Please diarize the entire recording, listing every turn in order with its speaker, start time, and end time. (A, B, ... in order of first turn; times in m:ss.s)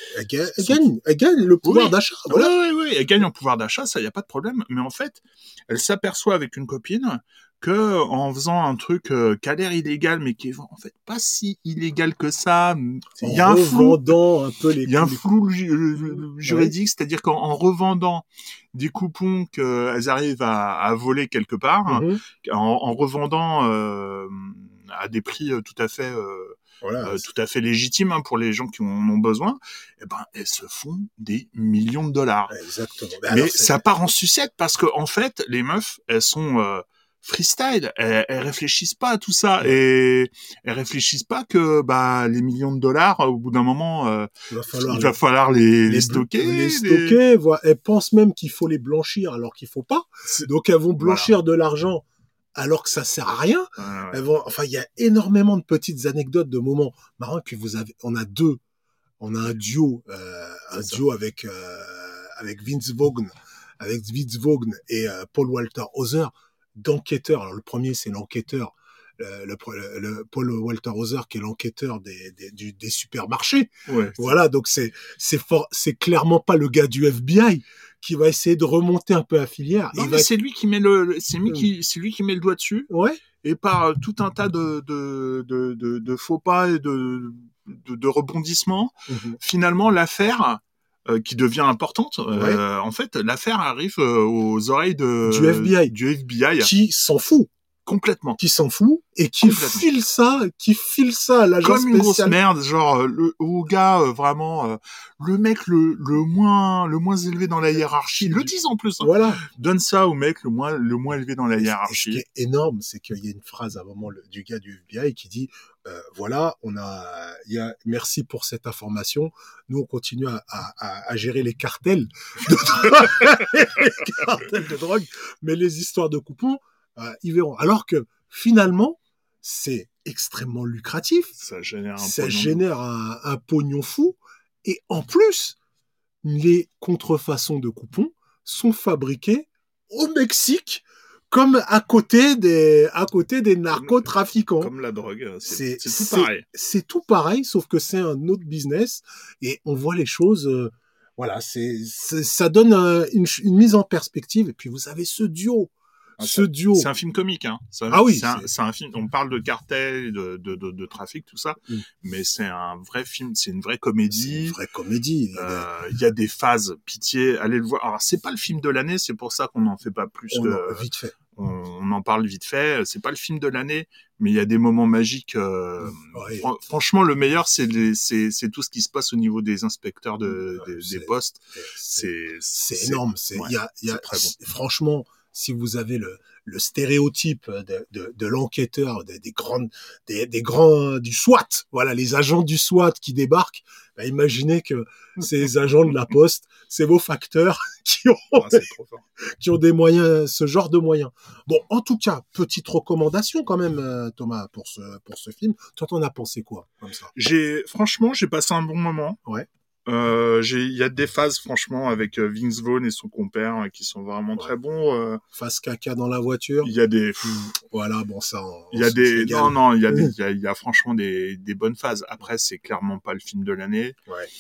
0:00.1-0:02.6 A
0:00.4-0:00.9 B
0:01.6-0:14.1 B
0:13.2-0:15.2 A
0:14.8-0:32.6 B
0:16.4-0:16.7 A
0:21.9-0:22.2 A
0:26.8-0:27.2 A
0:32.5-0:33.8 A
0:33.3-0:47.2 B
0:44.5-0:45.2 A
0:45.8-0:52.0 A
0:51.0-0:51.3 B
0:52.6-0:58.6 A
0:53.8-0:54.2 B
0:59.2-1:20.3 A
1:13.9-1:14.3 B
1:19.9-1:22.9 B
1:22.9-1:23.2 A
1:23.4-1:36.7 B
1:29.1-1:29.4 A
1:32.3-1:32.6 A
1:35.2-1:35.9 A
1:36.6-1:37.5 A
1:37.8-1:38.4 B
1:38.4-1:42.4 A
1:39.4-1:39.9 B
1:41.6-1:52.2 B
1:47.8-1:49.4 A
1:51.6-2:11.4 A
2:11.4-2:12.6 B
2:12.0-2:15.6 A
2:16.2-2:24.7 A
2:23.7-2:26.4 B
2:25.4-2:36.9 A
2:36.2-2:44.6 B
2:37.9-2:38.5 A
2:44.1-2:45.7 A
2:45.3-3:04.3 B
2:50.3-2:51.1 A
2:55.8-2:56.5 A
3:00.3-3:18.6 A
3:18.3-3:19.0 B
3:19.4-3:27.1 A
3:27.1-3:29.2 B
3:29.9-3:35.2 B
3:35.3-3:40.1 A
3:36.6-3:37.5 B
3:38.7-3:44.0 B